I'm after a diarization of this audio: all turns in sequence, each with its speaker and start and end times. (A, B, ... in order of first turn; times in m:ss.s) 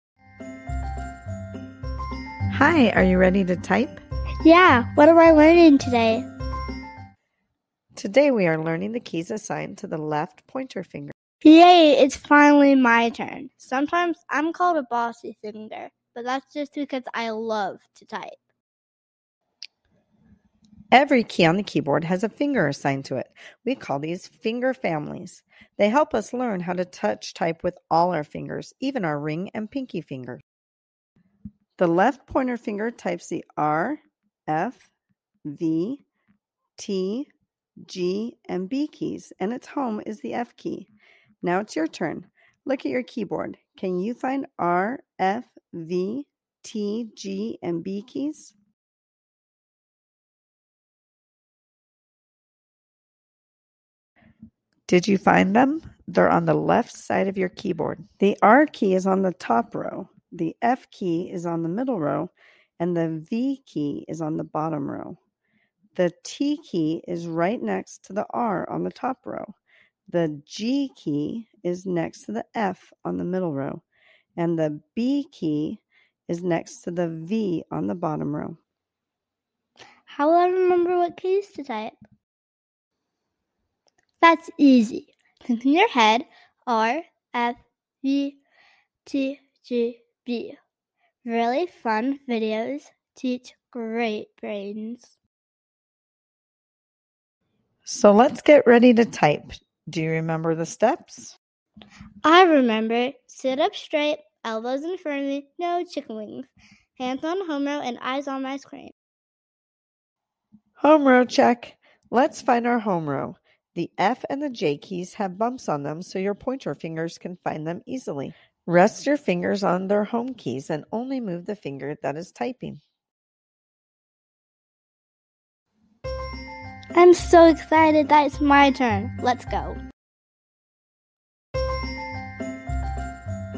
0:02.5-0:04.0 A
0:04.4-0:06.2 B
0:07.9-0:11.1 A
0:11.4-0:18.4 B
0:20.9-0:30.4 A
0:31.8-0:34.9 A
0:35.5-0:36.0 A
0:36.8-0:37.3 A
0:37.8-0:40.9 A
0:41.4-0:48.5 A
0:54.9-1:05.2 A
1:05.9-1:09.6 A
1:10.1-1:13.8 A
1:14.4-1:18.6 A
1:20.1-1:22.0 B
1:24.2-1:28.4 B
1:29.0-1:30.6 B
1:31.2-1:35.1 B
1:37.8-1:41.4 A
1:42.2-1:48.9 B
1:50.8-2:02.8 A
2:06.9-2:09.8 B